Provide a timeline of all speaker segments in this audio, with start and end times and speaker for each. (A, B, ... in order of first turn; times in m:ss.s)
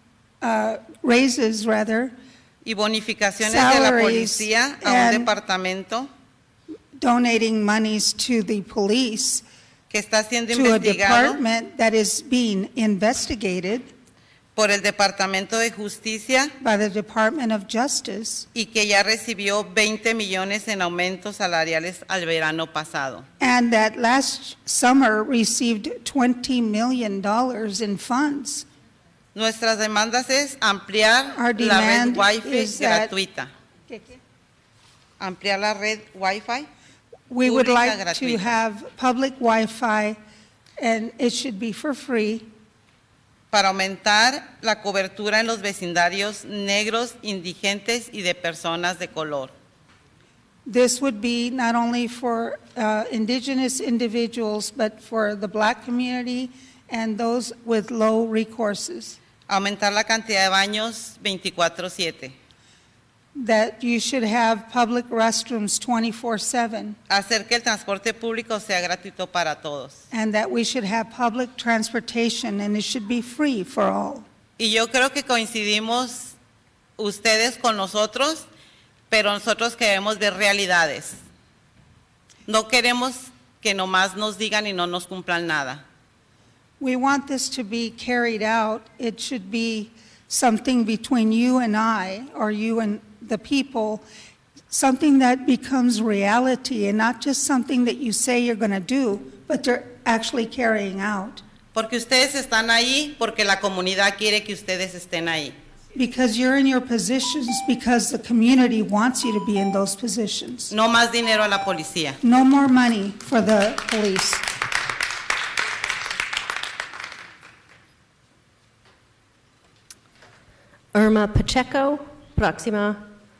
0:00.4-0:02.1 A
0:02.6-0:06.1 B
0:03.4-0:05.3 A
0:07.0-0:09.4 A
0:09.9-0:11.4 B
0:10.5-0:13.9 A
0:14.5-0:16.5 B
0:16.6-0:18.5 A
0:18.5-0:23.2 B
0:23.4-0:28.6 A
0:29.3-0:33.5 B
0:31.4-0:33.1 A
0:33.9-0:34.2 A
0:35.2-0:36.7 B
0:37.3-0:40.2 A
0:37.4-0:38.5 B
0:40.8-0:42.5 A
0:43.5-0:49.5 B
0:50.6-0:59.2 A
0:59.5-1:02.3 B
1:03.3-1:07.0 A
1:07.1-1:10.0 B
1:10.1-1:14.2 A
1:14.6-1:16.4 B
1:17.0-1:18.5 B
1:19.1-1:21.2 B
1:22.5-1:25.8 B
1:26.8-1:34.0 A
1:34.7-1:41.4 A
1:41.7-1:45.5 B
1:46.0-1:50.7 A
1:50.7-1:52.2 B
1:52.2-1:54.4 A
2:00.9-2:03.1 C